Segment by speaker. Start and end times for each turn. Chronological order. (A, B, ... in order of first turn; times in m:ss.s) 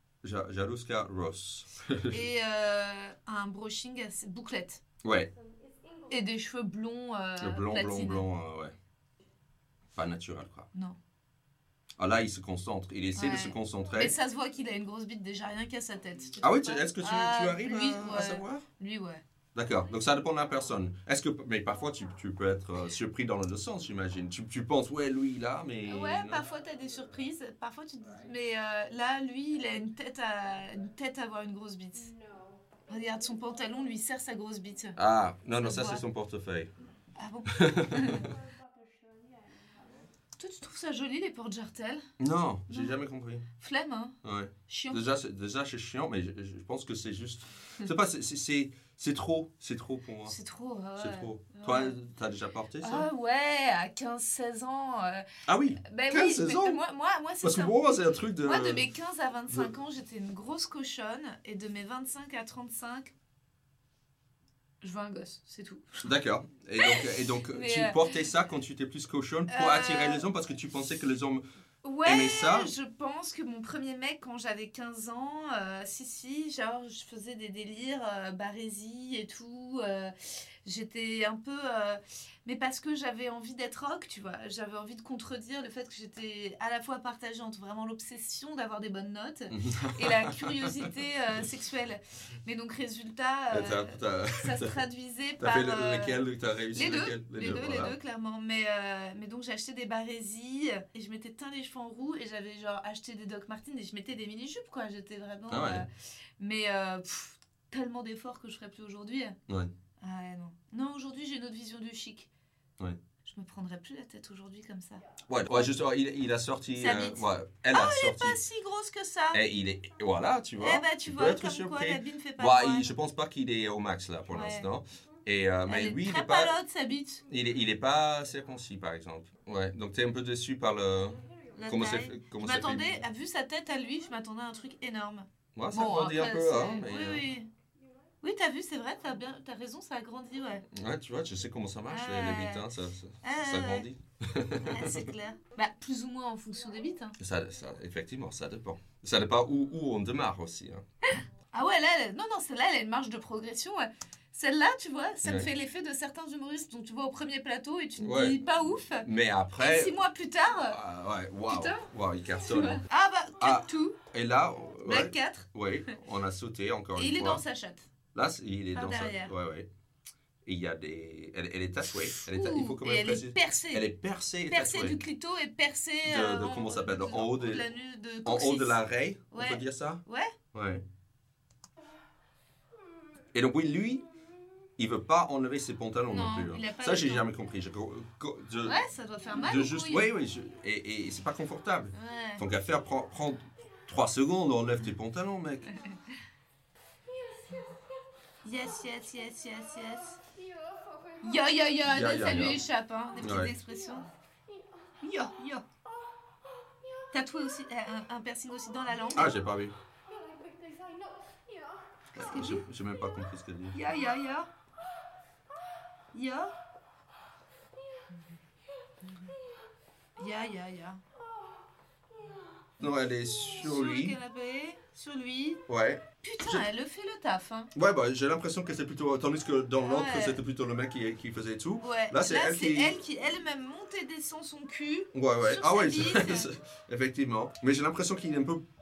0:00.2-0:02.2 A
0:02.1-0:04.8 B
0:05.0-0:05.3 A
0:06.1-0:08.2 B
0:07.4-0:08.7 A
0:09.9-0:10.7 A
0:12.0-0:14.1 A
0:13.2-0:19.2 B
0:16.4-0:18.6 A
0:19.5-0:26.4 A
0:25.9-0:32.1 B
0:32.9-0:35.0 B
0:35.0-0:36.7 A
0:35.6-0:36.0 B
0:37.2-0:38.3 B
0:37.5-0:38.3 A
0:40.4-0:42.0 B
0:42.2-0:43.4 A
0:42.7-0:43.0 B
0:43.6-0:44.2 B
0:44.2-0:50.4 A
0:44.7-0:45.0 B
0:50.2-0:51.9 B
0:51.0-0:53.1 A
0:52.8-0:55.3 B
0:55.5-0:56.8 A
0:55.8-0:57.8 B
0:57.4-0:58.9 A
0:58.4-1:03.1 B
1:04.8-1:06.1 B
1:06.0-1:11.4 A
1:06.8-1:08.2 B
1:09.5-1:10.2 B
1:11.8-1:36.2 B
1:12.0-1:12.7 A
1:29.5-1:30.9 A
1:33.5-1:34.8 A
1:35.4-1:37.9 A
1:36.7-1:45.9 B
1:45.5-1:45.8 A
1:46.4-1:49.4 B
1:50.0-1:52.3 B
1:53.2-1:55.7 B
1:55.3-1:58.4 A
1:56.8-1:59.4 B
1:59.3-2:06.5 A
2:00.6-2:02.9 B
2:04.3-2:04.7 B
2:05.7-2:07.2 B
2:07.3-2:13.0 A
2:11.5-2:17.5 B
2:15.5-2:17.2 A
2:18.2-2:20.6 B
2:20.7-2:25.1 A
2:21.9-2:22.6 B
2:23.2-2:23.9 B
2:24.5-2:27.2 B
2:27.2-2:30.8 A
2:31.1-2:39.1 B
2:35.2-2:35.5 A
2:38.0-2:38.4 A
2:39.0-2:40.0 A
2:39.6-2:40.8 B
2:40.6-2:42.8 A
2:41.5-2:41.8 B
2:42.4-2:44.0 B
2:43.4-2:47.4 A
2:44.8-2:45.5 B
2:46.9-2:47.8 B
2:48.1-2:49.7 A
2:48.7-2:49.3 B
2:50.4-2:55.0 A
2:52.2-2:53.9 B
2:54.5-2:58.8 B
2:56.0-2:57.6 A
2:58.2-3:00.8 A
2:59.3-3:00.3 B
3:03.3-3:04.0 A
3:04.8-3:08.8 A
3:06.1-3:07.3 B
3:08.6-3:10.1 B
3:09.3-3:15.8 A
3:11.9-3:12.4 B
3:18.4-3:20.2 B
3:21.2-3:24.1 B
3:21.9-3:22.6 A
3:23.2-3:23.5 A
3:25.0-3:25.6 B
3:27.1-3:29.3 B
3:29.1-3:29.7 A
3:32.1-3:32.6 B
3:32.1-3:33.8 A
3:33.7-3:34.5 B
3:36.1-3:36.5 B
3:40.2-3:41.0 B
3:42.8-3:44.2 A
3:43.5-3:45.6 B
3:45.7-3:46.7 A
3:46.2-3:47.7 B
3:47.7-3:53.0 A
3:49.8-3:50.4 B
3:51.8-3:56.5 B
3:55.1-3:58.6 A